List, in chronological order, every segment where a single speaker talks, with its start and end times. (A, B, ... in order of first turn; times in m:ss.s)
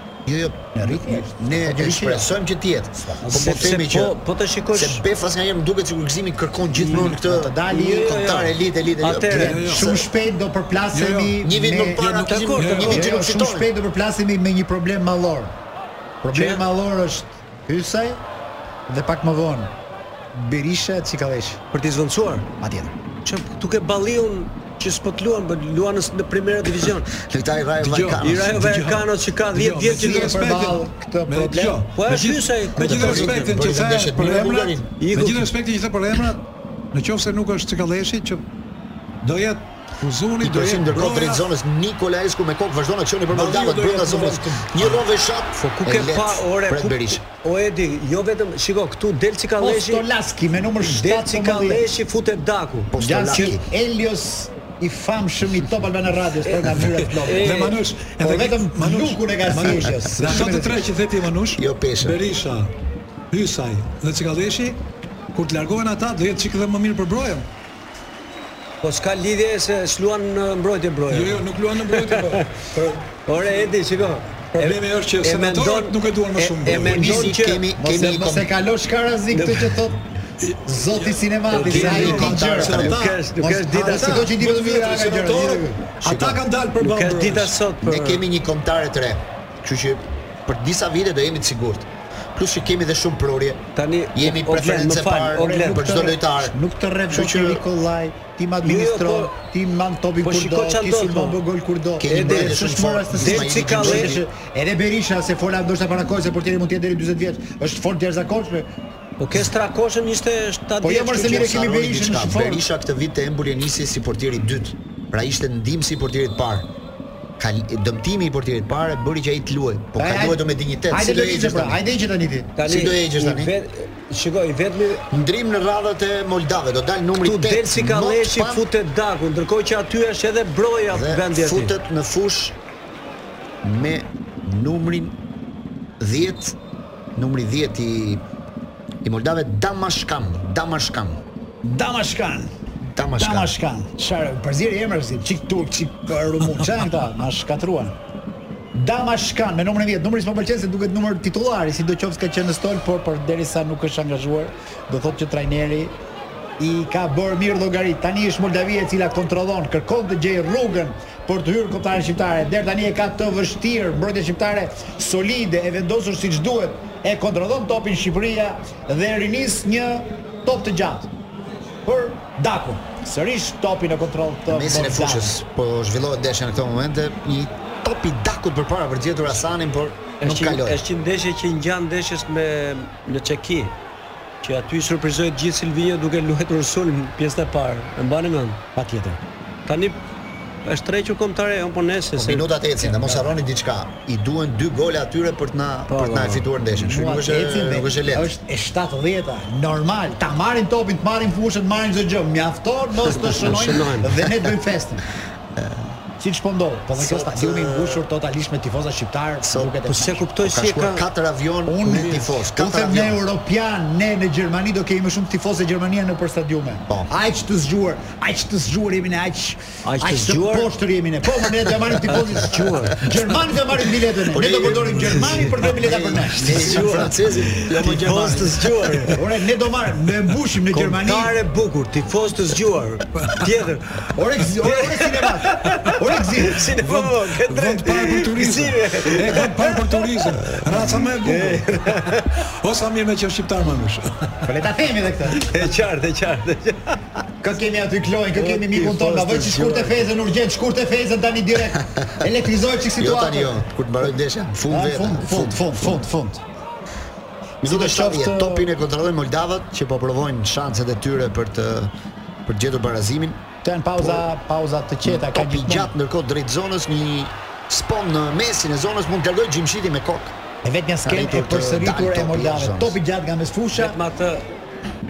0:00.2-0:04.2 A
0:00.7-0:02.3 B
0:03.0-0:03.7 B
0:03.3-0:05.0 C
0:04.7-0:10.0 A
0:06.8-0:07.1 C
0:06.9-0:08.1 B
0:07.7-0:09.7 C
0:09.3-0:10.0 D
0:09.6-0:12.0 B
0:10.9-0:13.0 D
0:11.4-0:13.7 A
0:12.2-0:13.0 C
0:12.9-0:15.5 B
0:16.2-0:18.2 B
0:16.3-0:16.6 C
0:18.9-0:19.7 B
0:20.3-0:21.6 B
0:21.7-0:22.5 C
0:22.6-0:22.9 B
0:23.2-0:27.1 C
0:27.1-0:28.7 A
0:27.8-0:38.4 D
0:28.2-0:30.3 C
0:29.9-0:31.8 B
0:31.9-0:33.6 C
0:32.8-0:34.9 A
0:35.0-0:35.5 C
0:39.2-0:41.5 D
0:40.4-0:47.2 A
0:43.3-0:45.0 D
0:43.8-0:44.5 B
0:45.6-0:50.0 C
0:49.6-0:51.8 B
0:50.8-0:53.5 C
0:52.9-0:53.7 A
0:53.0-0:57.5 B
0:56.5-0:57.8 C
0:56.8-1:02.7 D
0:58.2-1:00.8 B
1:01.5-1:02.2 A
1:03.3-1:04.8 D
1:05.3-1:07.5 D
1:08.8-1:17.7 C
1:11.1-1:12.7 D
1:14.6-1:17.3 D
1:16.7-1:18.5 A
1:17.8-1:20.0 B
1:19.3-1:19.8 C
1:20.4-1:27.5 D
1:20.6-1:26.3 B
1:21.5-1:24.3 C
1:21.7-1:22.9 A
1:26.8-1:28.2 C
1:27.8-1:37.6 A
1:33.8-1:36.0 C
1:35.5-1:48.7 B
1:38.6-1:39.3 C
1:40.2-1:41.4 C
1:42.0-1:44.2 A
1:42.0-1:44.2 C
1:49.2-1:51.5 C
1:50.8-1:52.6 B
1:51.0-1:56.7 A
1:57.4-2:01.8 A
2:00.0-2:02.5 B
2:02.6-2:05.1 C
2:02.6-2:03.5 A
2:05.1-2:08.6 A
2:07.2-2:11.7 C
2:10.9-2:12.6 A
2:13.6-2:15.2 A
2:16.0-2:16.6 A
2:17.1-2:18.2 A
2:19.0-2:21.2 A
2:21.6-2:22.5 B
2:22.9-2:23.5 A
2:23.2-2:28.0 B
2:28.7-2:36.0 B
2:36.6-2:51.1 B
2:51.8-2:55.3 B
2:54.5-3:00.8 A
3:00.2-3:03.8 C
3:04.4-3:08.6 C
3:08.8-3:09.2 B
3:09.7-3:10.0 C
3:10.6-3:12.5 C
3:12.2-3:18.3 A
3:12.8-3:13.3 B
3:15.9-3:16.5 C
3:16.7-3:25.0 B
3:23.1-3:24.2 C
3:25.6-3:25.8 A
3:26.2-3:30.2 B
3:27.0-3:28.1 A
3:29.4-3:29.8 A
3:29.8-3:31.0 C
3:30.4-3:33.2 A
3:31.6-3:47.1 B
3:39.8-3:40.7 C
3:42.1-3:43.1 C
3:44.3-3:49.1 A
3:46.4-3:49.2 C
3:49.1-3:51.4 B
3:50.7-4:02.4 C
3:54.1-3:56.6 B
3:56.6-4:04.5 D
4:04.4-4:05.5 B
4:05.3-4:07.0 C
4:07.4-4:13.6 B
4:08.3-4:10.1 C
4:13.0-4:16.0 A
4:14.7-4:16.4 B
4:17.6-4:21.9 A
4:17.6-4:18.7 B
4:22.4-4:23.4 A
4:23.6-4:25.9 B
4:24.0-4:24.3 A
4:25.0-4:30.4 A
4:30.6-4:34.0 B
4:31.0-4:33.0 A
4:33.7-4:34.4 C